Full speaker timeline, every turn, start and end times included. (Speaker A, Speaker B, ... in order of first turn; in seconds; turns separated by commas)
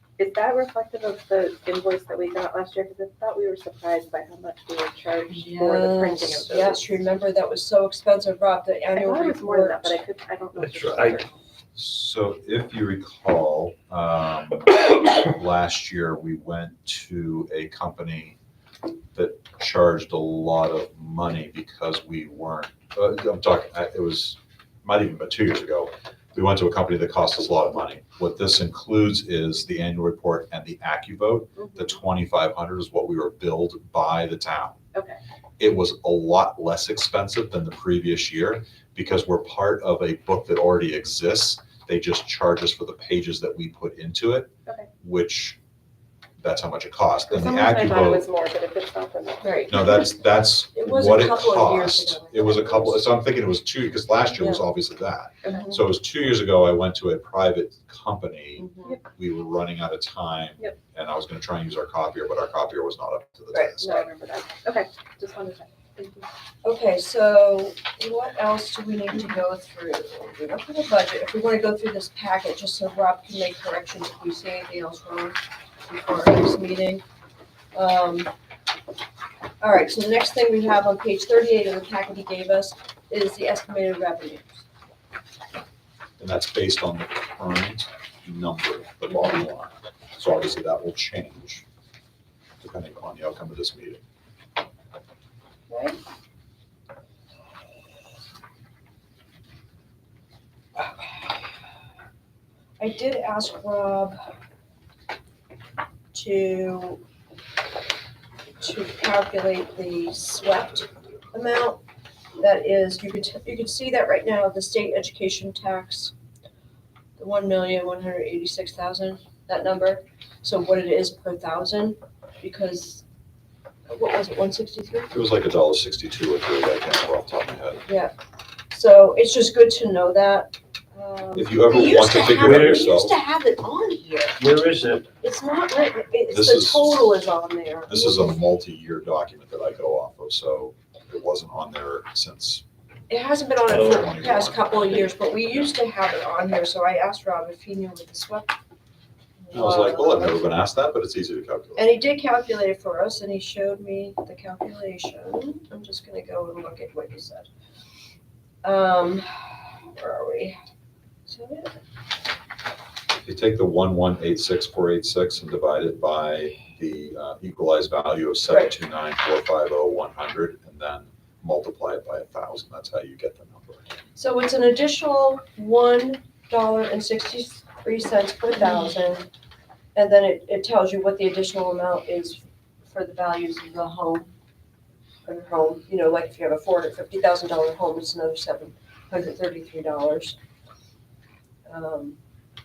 Speaker A: 0.2-6.9, Speaker B: 5.3-10.0, Speaker A: 8.9-11.3, Speaker C: 10.6-11.2, Speaker D: 11.7-18.4, Speaker D: 19.1-34.8, Speaker A: 31.6-32.0, Speaker D: 35.6-44.5, Speaker D: 45.0-45.6, Speaker D: 46.4-48.3, Speaker A: 47.3-49.8, Speaker B: 49.4-50.1, Speaker D: 49.7-64.1, Speaker B: 50.7-53.2, Speaker B: 54.3-54.6, Speaker A: 55.4-55.7, Speaker B: 55.5-55.8, Speaker B: 58.6-59.0, Speaker B: 63.5-63.8, Speaker A: 63.8-66.3, Speaker B: 66.6-77.0, Speaker B: 77.7-78.3, Speaker B: 79.6-84.6, Speaker D: 86.2-91.6, Speaker B: 89.1-89.4, Speaker D: 92.6-94.0, Speaker B: 95.7-96.0, Speaker B: 102.8-104.2, Speaker B: 106.1-107.0, Speaker B: 108.6-111.8, Speaker B: 112.4-116.1, Speaker B: 117.2-123.0, Speaker B: 123.9-125.1, Speaker D: 125.1-127.8, Speaker B: 127.8-128.1, Speaker B: 128.7-134.4, Speaker D: 131.3-133.1, Speaker C: 132.4-132.8, Speaker C: 134.4-135.0, Speaker B: 135.2-138.4, Speaker D: 136.3-137.1, Speaker D: 137.9-142.6, Speaker B: 143.1-148.6, Speaker C: 143.7-144.0, Speaker D: 143.8-145.7, Speaker B: 149.4-150.5, Speaker D: 149.5-151.9, Speaker B: 151.8-157.5, Speaker B: 158.6-160.6, Speaker B: 161.3-161.7, Speaker D: 163.1-173.8, Speaker B: 168.5-168.7, Speaker B: 174.2-179.3, Speaker B: 179.9-184.3, Speaker B: 185.2-190.3, Speaker B: 191.7-192.2